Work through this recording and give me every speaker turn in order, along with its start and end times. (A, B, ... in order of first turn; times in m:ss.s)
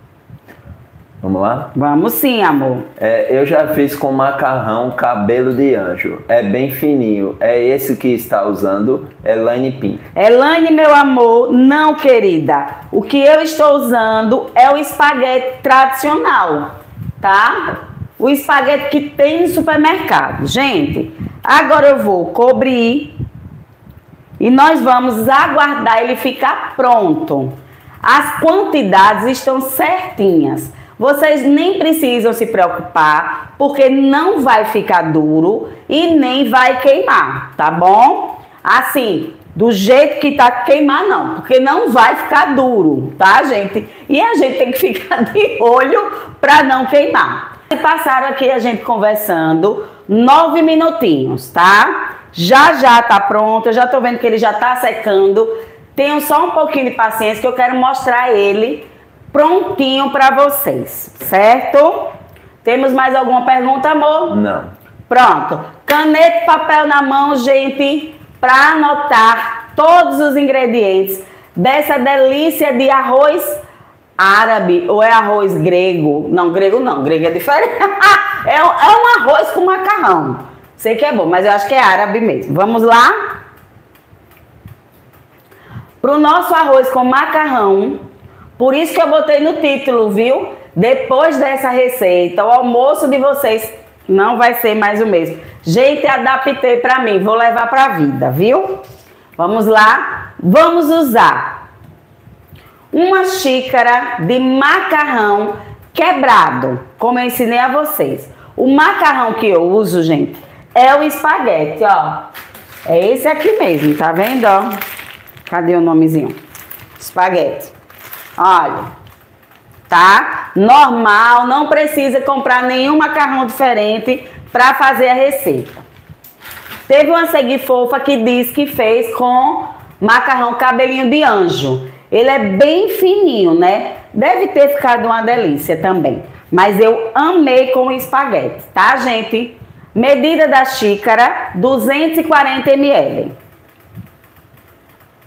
0:01.2-0:01.7 A
0:01.7-0:02.9 B
0:03.0-0:10.0 A
0:10.1-0:23.2 B
0:24.4-1:02.1 B
1:02.6-1:04.4 B
1:04.3-1:04.7 A
1:05.1-1:13.6 B
1:14.2-1:23.3 B
1:26.0-1:28.0 B
1:28.6-1:38.8 B
1:39.4-1:41.6 B
1:42.9-1:52.3 B
1:52.8-1:54.8 B
1:55.5-1:56.4 B
1:57.0-1:57.7 B
1:58.4-1:58.9 B
1:59.9-2:05.8 B
2:06.9-2:23.3 B